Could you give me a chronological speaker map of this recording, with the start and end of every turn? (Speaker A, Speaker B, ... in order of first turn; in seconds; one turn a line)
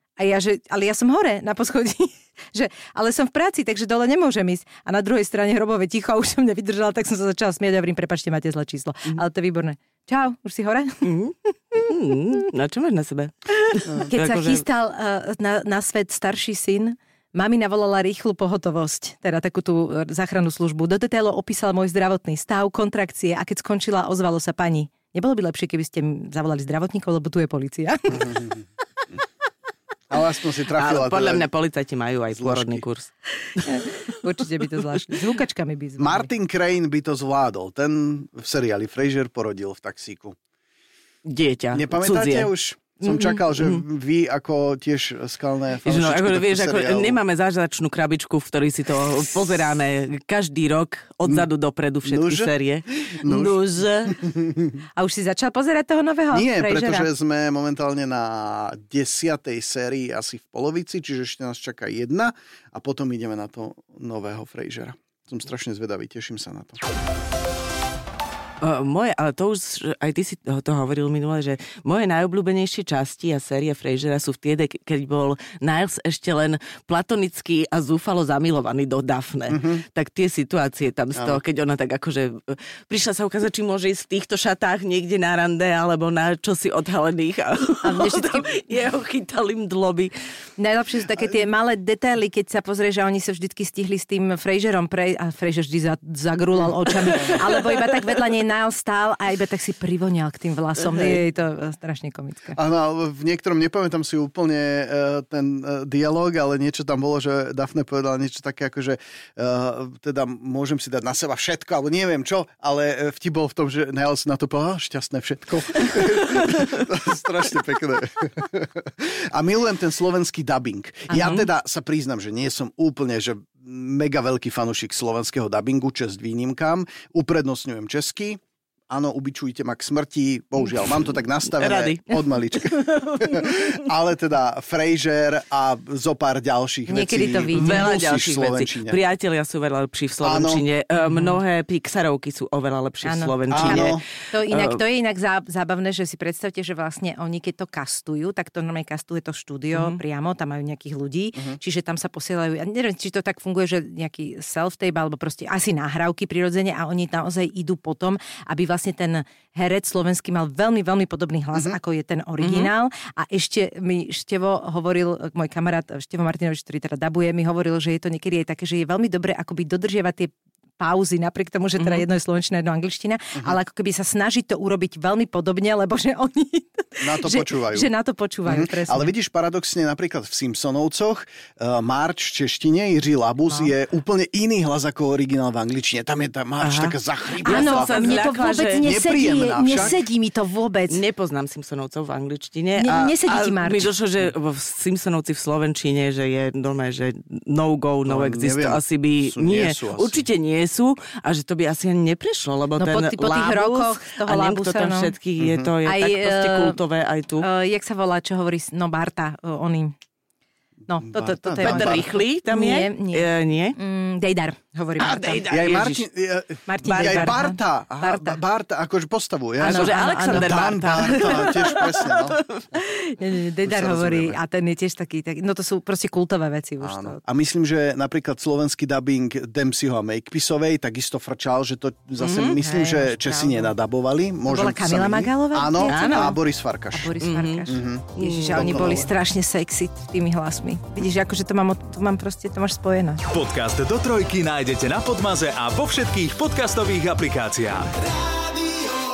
Speaker A: 0.2-11.1
Speaker B: 11.0-14.6
Speaker A: 13.9-28.4
Speaker C: 28.1-28.6
Speaker C: 30.1-31.4
Speaker B: 30.7-33.7
Speaker C: 32.4-32.8
Speaker A: 33.6-36.3
Speaker C: 36.0-40.4
Speaker B: 41.2-42.5
Speaker C: 41.7-47.2
Speaker B: 43.5-43.8
Speaker B: 45.8-54.1
Speaker C: 52.0-52.5
Speaker C: 53.1-53.5
Speaker C: 54.1-54.7
Speaker A: 55.0-57.1
Speaker C: 56.3-66.8
Speaker B: 68.6-90.1
Speaker C: 79.5-79.8
Speaker A: 87.8-88.5
Speaker A: 90.6-102.6
Speaker B: 97.0-98.0
Speaker C: 97.1-97.4
Speaker C: 102.5-139.0
Speaker B: 121.1-121.4
Speaker B: 131.5-133.8
Speaker A: 136.9-138.0
Speaker B: 137.5-144.8
Speaker C: 140.2-140.6
Speaker A: 141.0-141.3
Speaker A: 143.0-179.1
Speaker C: 143.5-144.0
Speaker B: 149.7-150.0
Speaker B: 162.4-162.7
Speaker B: 171.8-172.0
Speaker C: 177.0-177.9
Speaker C: 178.5-190.0
Speaker B: 186.6-188.8
Speaker A: 187.4-191.0
Speaker B: 190.9-207.4
Speaker A: 192.8-193.9
Speaker C: 198.1-200.2
Speaker A: 202.8-205.1
Speaker C: 205.4-205.7
Speaker A: 205.8-206.8
Speaker A: 207.4-209.9
Speaker A: 210.9-215.5
Speaker C: 211.0-212.1
Speaker B: 211.6-213.8
Speaker B: 215.0-216.1
Speaker C: 215.4-222.4
Speaker A: 216.7-218.4
Speaker B: 216.8-217.4
Speaker A: 219.6-221.8
Speaker B: 219.6-222.5
Speaker A: 222.7-227.2
Speaker C: 223.6-224.4
Speaker C: 226.8-237.1
Speaker B: 232.2-232.6
Speaker A: 232.5-233.7
Speaker A: 234.5-236.4
Speaker B: 235.8-236.4
Speaker A: 236.9-243.2
Speaker B: 237.2-237.6
Speaker C: 237.7-239.1
Speaker B: 238.2-239.1
Speaker D: 243.3-247.9
Speaker D: 248.5-248.9